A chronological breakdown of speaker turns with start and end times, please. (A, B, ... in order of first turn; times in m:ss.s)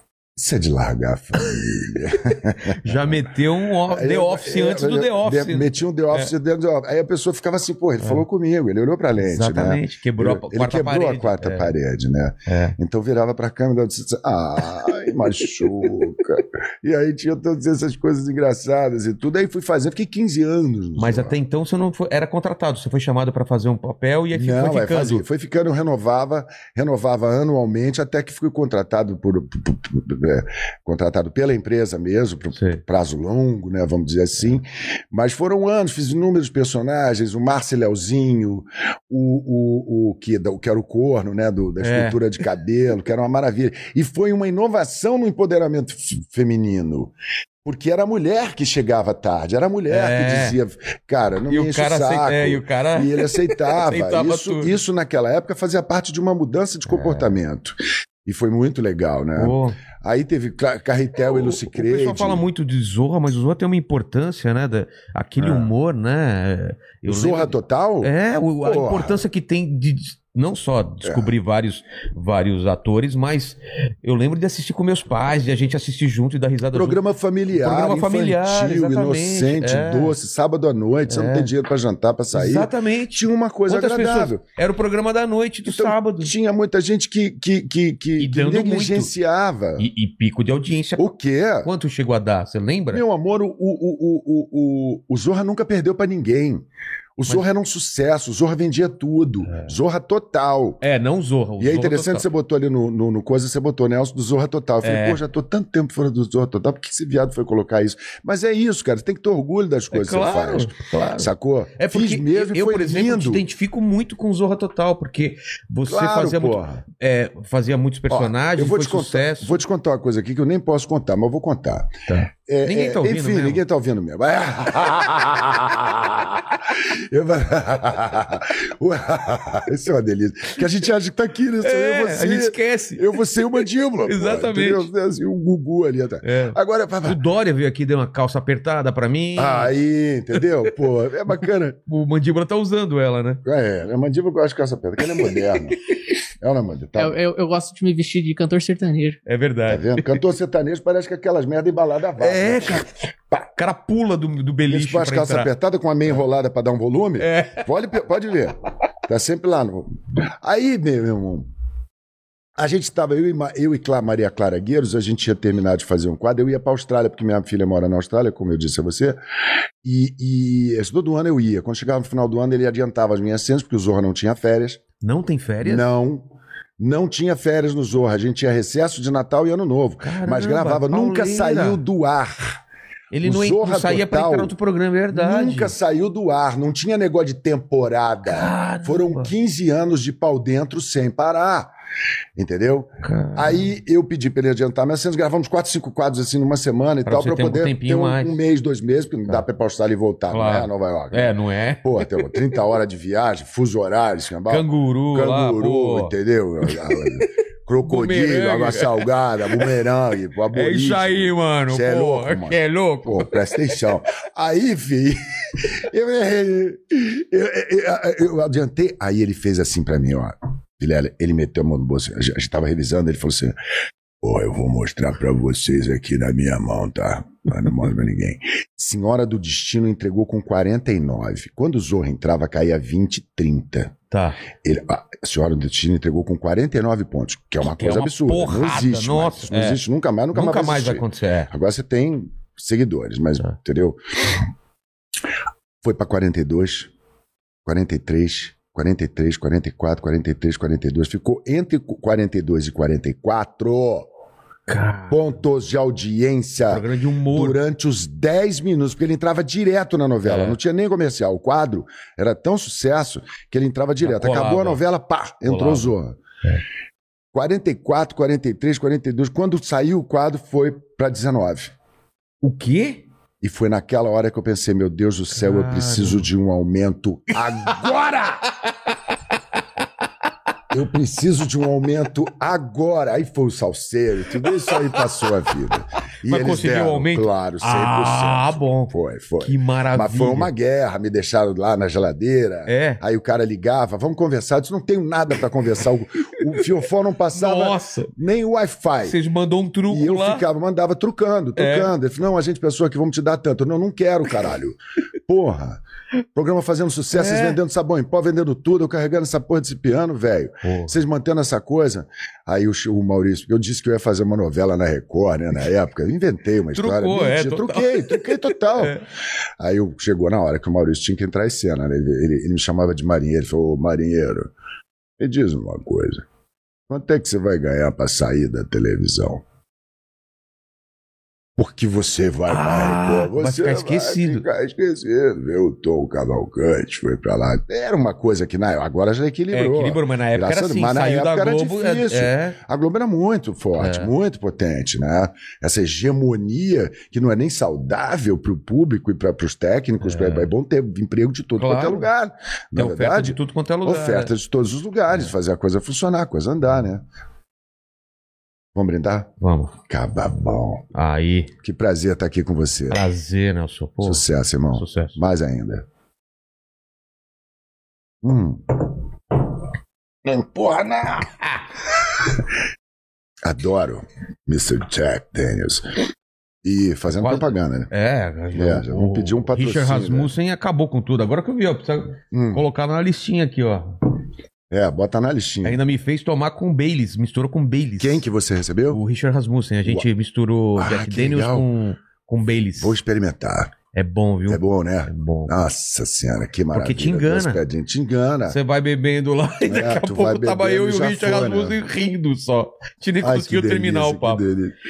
0:00.4-0:03.2 A
0:02.7-0:06.3 B
0:03.9-0:21.4 A
0:09.2-0:11.7 B
0:12.5-0:12.8 B
0:21.0-0:25.2 B
0:24.3-0:47.1 A
0:32.5-0:32.8 B
0:41.8-0:42.2 B
0:47.6-1:02.4 A
0:49.9-0:50.6 B
0:51.5-0:54.8 B
0:56.9-0:57.3 B
0:59.4-0:59.8 B
1:01.2-1:20.2 B
1:05.4-1:05.7 A
1:07.1-1:09.2 A
1:11.0-1:11.3 A
1:16.7-1:24.4 A
1:21.1-1:21.5 B
1:22.3-1:26.3 B
1:25.7-1:29.9 A
1:28.2-1:29.1 B
1:29.8-1:33.0 B
1:31.0-1:31.7 A
1:32.9-1:36.6 A
1:37.2-1:40.8 A
1:39.5-1:39.7 B
1:40.8-1:42.3 B
1:41.6-1:53.4 A
1:44.8-1:45.2 B
1:49.9-1:59.6 B
1:55.9-1:56.8 A
1:58.1-2:17.2 A
2:02.1-2:03.6 B
2:11.6-2:13.1 B
2:14.0-2:14.9 B
2:16.2-2:19.7 B
2:19.4-2:21.8 A
2:21.9-2:23.4 B
2:23.4-2:25.9 A
2:26.4-2:27.2 A
2:27.0-2:29.2 C
2:29.3-2:30.2 B
2:29.7-2:32.9 A
2:32.2-2:35.5 B
2:34.7-2:41.5 A
2:37.2-2:37.7 B
2:42.6-2:49.2 A
2:49.8-2:54.8 A
2:55.0-2:55.9 B
2:55.6-3:02.6 A
3:00.0-3:01.8 B
3:03.1-3:05.8 B
3:03.2-3:04.5 A
3:05.1-3:11.7 A
3:08.3-3:09.3 B
3:12.4-3:43.6 A
3:13.0-3:13.7 B
3:17.1-3:18.4 B
3:20.3-3:22.3 B
3:24.5-3:26.1 B
3:26.7-3:27.3 B
3:27.8-3:29.8 B
3:30.5-3:33.8 B
3:44.2-3:54.0 A
3:54.1-3:54.4 B
3:54.6-4:04.4 A
3:57.6-3:59.8 B
4:00.3-4:01.5 B
4:05.8-4:06.9 A
4:07.6-4:14.1 A
4:14.7-4:15.3 B
4:15.1-4:26.2 A
4:16.7-4:17.6 B
4:20.2-4:20.6 B
4:24.0-4:24.8 B
4:25.4-4:25.9 B
4:27.3-4:31.7 A
4:32.4-4:33.0 B
4:33.4-4:38.5 A
4:35.3-4:36.3 B
4:40.7-4:59.2 A
4:44.4-4:45.0 B
4:46.2-4:50.5 B
4:52.7-4:53.0 B
4:57.3-4:58.1 B
4:59.0-5:00.5 B
4:59.9-5:05.8 A
5:01.6-5:01.9 B
5:06.4-5:19.0 A
5:07.1-5:07.6 B
5:10.6-5:11.0 B
5:16.7-5:19.0 B
5:19.6-5:24.5 A
5:25.2-5:26.2 A
5:26.9-5:29.4 A
5:31.6-5:57.0 A
5:32.5-5:34.4 B
5:39.5-5:42.6 B
5:43.8-5:44.1 B
5:50.0-5:50.5 B
5:51.6-5:52.1 B
5:52.8-5:54.3 B
5:58.8-5:59.3 A
5:59.4-5:59.8 B
5:59.8-6:00.8 A
6:00.9-6:01.5 B
6:01.6-6:03.0 A
6:02.9-6:05.2 B
6:04.0-6:05.8 A
6:08.2-6:09.0 A
6:10.2-6:11.5 A
6:13.4-6:16.0 A
6:16.6-6:17.9 A
6:17.1-6:24.0 B
6:18.5-6:20.3 A
6:22.3-6:22.6 A
6:24.7-6:25.8 A
6:25.6-6:28.2 B
6:28.0-6:29.0 A
6:28.9-6:33.0 B
6:30.8-6:31.7 A
6:32.8-6:33.8 A
6:33.9-6:35.5 B
6:34.5-6:38.6 A
6:36.7-6:37.6 B
6:38.5-6:44.4 B
6:39.7-6:41.8 A
6:43.2-6:44.8 A